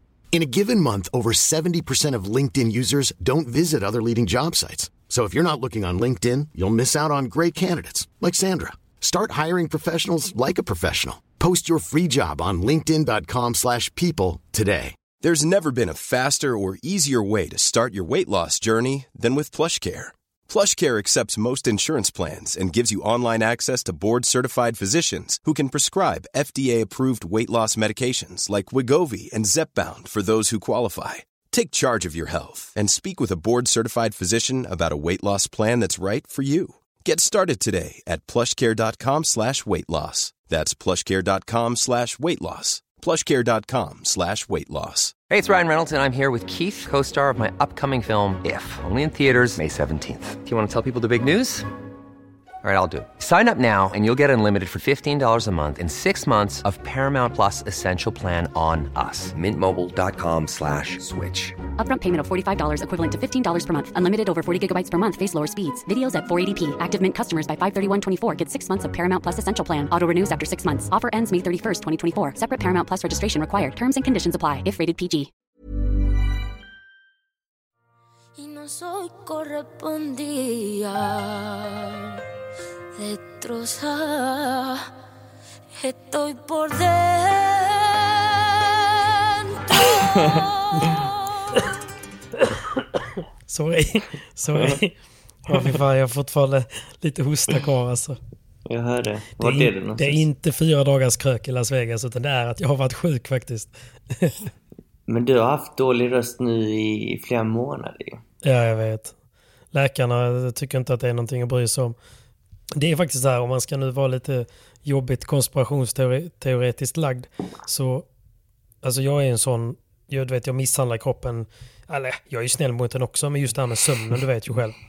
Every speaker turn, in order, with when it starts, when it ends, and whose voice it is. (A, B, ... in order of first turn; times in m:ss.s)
0:00.3-0:15.0 A
0:15.2-0:45.2 B
0:45.3-0:51.7 C
0:52.6-1:01.6 C
1:01.8-1:15.3 D
1:18.4-1:22.2 E
1:22.9-1:24.9 E
1:25.8-1:31.6 E
1:33.5-1:35.0 F
1:35.5-1:38.2 F
1:35.5-1:35.8 G
1:38.6-1:40.2 G
1:39.4-1:44.4 F
1:45.1-1:48.2 G
1:48.4-1:49.1 F
1:49.7-1:52.0 F
1:52.8-1:58.0 F
1:58.8-2:04.8 F